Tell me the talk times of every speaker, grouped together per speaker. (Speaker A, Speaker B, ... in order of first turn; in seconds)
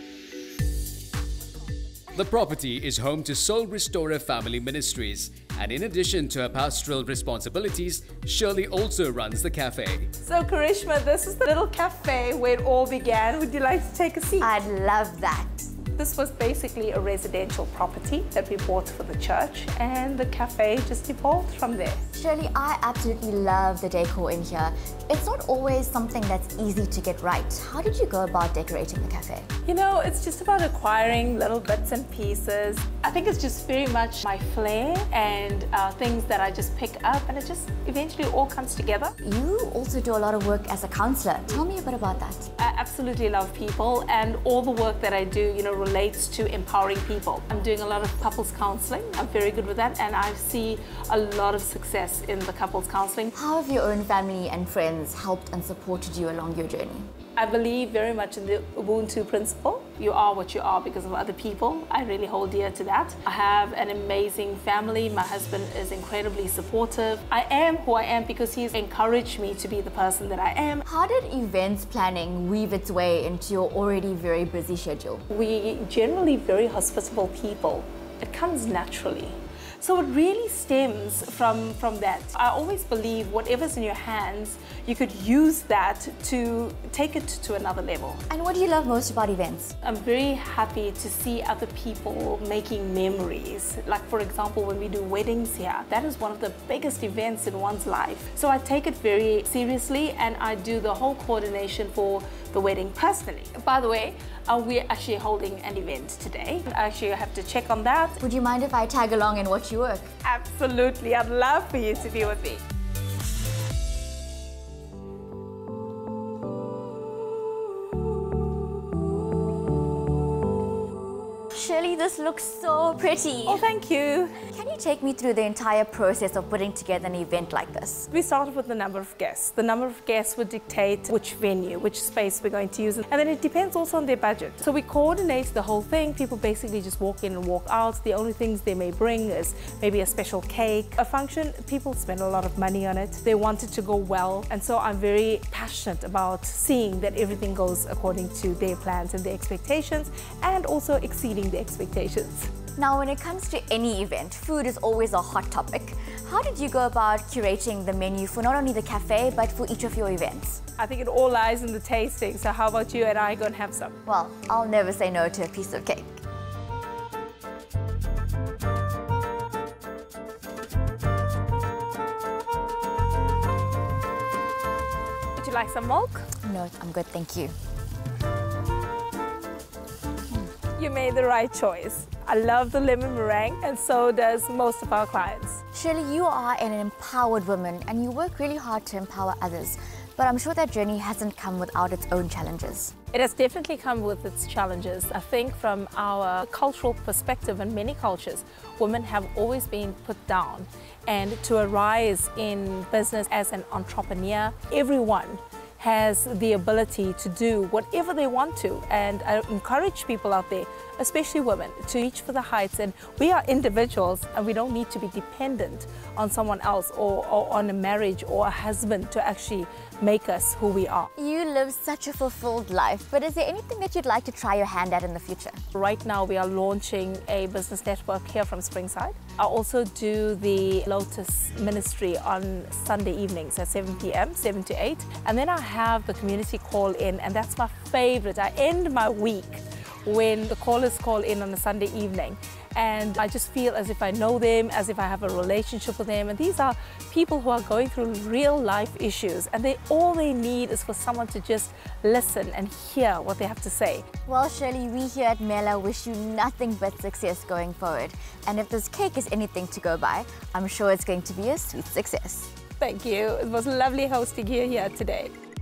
Speaker A: 2.1-10.1
Speaker B: 10.2-14.5, 15.9-22.1, 29.7-39.1, 42.6-53.3, 57.4-70.8, 75.3-88.2, 89.8-108.2, 110.2-112.6, 123.5-124.3, 128.1-152.5, 160.8-164.0, 175.4-176.3, 180.8-185.6, 193.1-221.1, 225.7-254.1, 262.8-265.3
Speaker C: 14.4-15.7, 22.1-29.5, 39.2-42.5, 53.3-57.1, 70.8-75.2, 88.3-89.8, 108.2-110.1, 121.5-123.7, 124.5-128.1, 152.8-160.6, 164.1-166.2, 176.4-177.5, 185.7-192.9, 221.2-225.6, 254.3-262.5